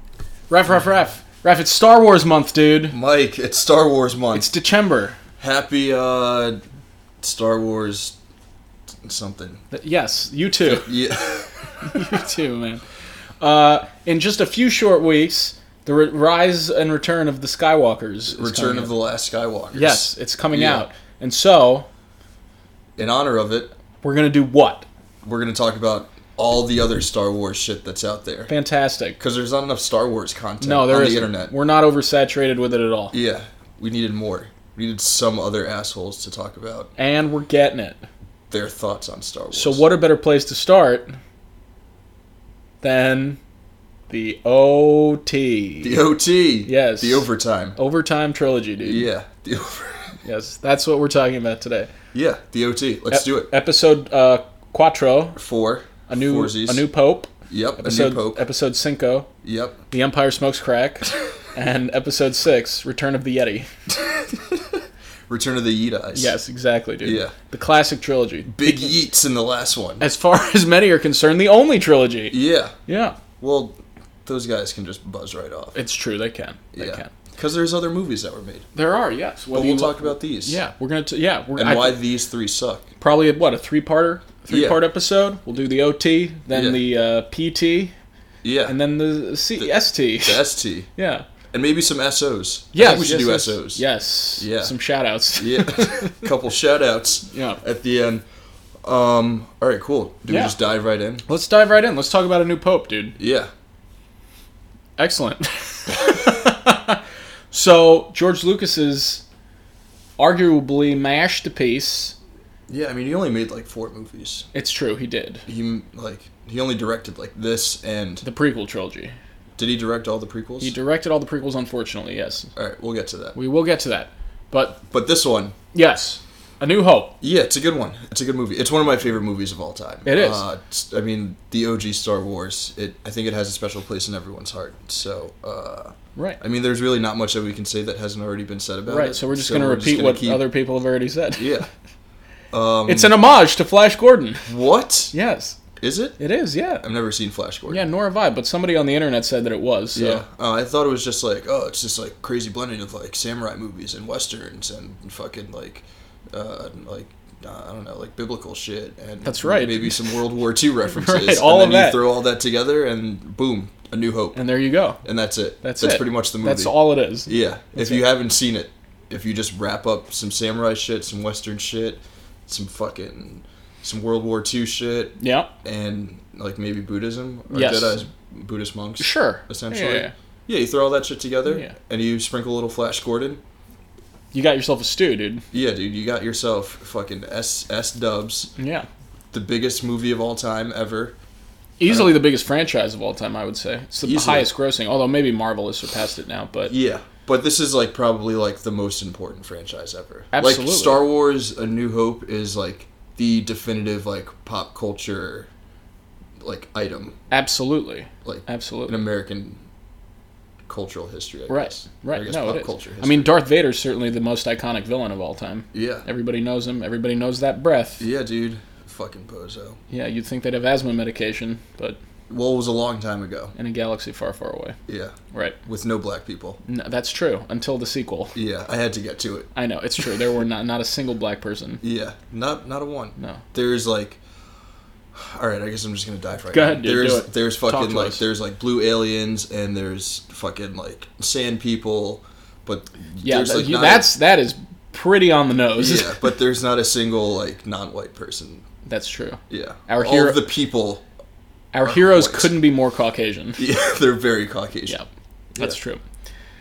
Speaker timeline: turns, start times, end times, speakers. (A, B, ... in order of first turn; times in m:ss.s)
0:00.5-0:03.0 A
0:02.9-0:04.5 B
0:04.3-0:05.2 A
0:05.4-0:06.6 B
0:07.2-0:08.2 B
0:09.0-0:09.6 B
0:09.7-0:11.0 A
0:10.6-0:12.2 B
0:11.8-0:12.8 A
0:13.4-0:19.0 A
0:18.3-0:20.9 B
0:19.7-0:21.9 A
0:23.0-0:23.7 B
0:24.0-0:24.9 A
0:25.2-0:28.5 B
0:28.5-0:29.2 A
0:29.2-0:31.6 B
0:30.6-0:33.2 A
0:33.1-0:36.9 B
0:37.0-0:38.0 A
0:38.5-0:39.8 B
0:39.5-0:41.2 A
0:42.8-0:43.4 A
0:44.1-0:46.0 A
0:45.8-0:47.8 B
0:46.7-0:49.1 A
0:48.8-0:50.1 B
0:50.2-0:51.9 A
0:52.1-0:53.5 B
0:53.1-0:55.4 A
0:55.4-0:56.9 B
0:56.1-0:59.3 A
0:57.5-0:58.4 B
0:59.4-0:59.8 B
0:59.9-1:03.7 A
1:04.0-1:06.3 B
1:06.2-1:08.8 A
1:07.0-1:07.3 B
1:08.5-1:10.0 B
1:10.0-1:13.2 A
1:12.3-1:12.8 B
1:13.4-1:15.8 B
1:15.8-1:17.1 A
1:16.7-1:18.7 B
1:18.7-1:22.0 A
1:19.5-1:20.6 B
1:21.6-1:22.9 B
1:23.0-1:27.9 A
1:24.5-1:24.8 B
1:26.5-1:26.8 B
1:28.4-1:28.8 B
1:28.7-1:31.3 A
1:29.6-1:30.9 B
1:31.5-1:33.8 B
1:32.7-1:36.3 A
1:34.4-1:34.7 B
1:35.4-1:38.2 B
1:37.3-1:37.6 A
1:38.8-1:41.2 B
1:40.3-1:40.6 A
1:41.3-1:43.2 A
1:43.2-1:43.5 B
1:45.0-1:47.0 A
1:47.5-1:49.2 A
1:50.2-1:52.2 A
1:52.7-1:54.5 B
1:54.5-1:55.5 A
1:55.5-1:58.2 B
1:58.2-1:59.1 A
1:59.6-2:00.8 B
2:00.6-2:02.5 A
2:02.6-2:03.4 B
2:03.4-2:04.8 A
2:04.9-2:05.6 B
2:05.7-2:07.2 A
2:07.2-2:20.5 B
2:10.1-2:10.4 A
2:18.9-2:21.6 A
2:21.4-2:21.7 B
2:22.5-2:23.1 B
2:22.9-2:24.5 A
2:24.5-2:25.1 B
2:25.1-2:25.6 A
2:25.8-2:26.2 B
2:26.2-2:26.8 A
2:26.8-2:27.9 B
2:27.7-2:30.2 A
2:29.9-2:44.4 B
2:39.2-2:40.0 A
2:40.9-2:42.0 A
2:44.4-2:45.0 A
2:45.0-3:03.4 B
2:45.6-2:48.0 A
2:55.2-2:55.5 A
2:57.5-2:58.0 A
2:59.0-3:00.1 A
3:01.5-3:01.7 A
3:04.3-3:05.4 A
3:05.5-3:08.5 B
3:08.6-3:08.9 A
3:09.3-3:11.2 B
3:11.8-3:16.7 A
3:11.9-3:12.2 B
3:14.0-3:14.5 B
3:16.7-3:25.5 B
3:20.3-3:21.0 A
3:26.4-3:27.2 B
3:27.3-3:29.0 A
3:28.2-3:29.6 B
3:30.7-3:33.3 B
3:31.5-3:38.0 A
3:35.7-3:36.1 B
3:38.0-3:39.8 B
3:39.9-3:42.0 A
3:42.3-3:43.5 B
3:43.6-3:44.8 A
3:44.9-3:46.6 B
3:45.3-3:45.6 A
3:46.6-3:48.4 A
3:48.4-3:49.5 B
3:49.6-3:51.8 A
3:51.8-3:54.2 B
3:53.2-3:53.4 A
3:55.1-4:04.1 B
3:56.5-3:58.2 A
4:03.2-4:06.2 A
4:05.8-4:08.6 B
4:08.8-4:10.5 A
4:09.5-4:11.0 B
4:11.7-4:13.6 A
4:11.8-4:12.6 B
4:13.6-4:15.0 B
4:15.6-4:16.0 A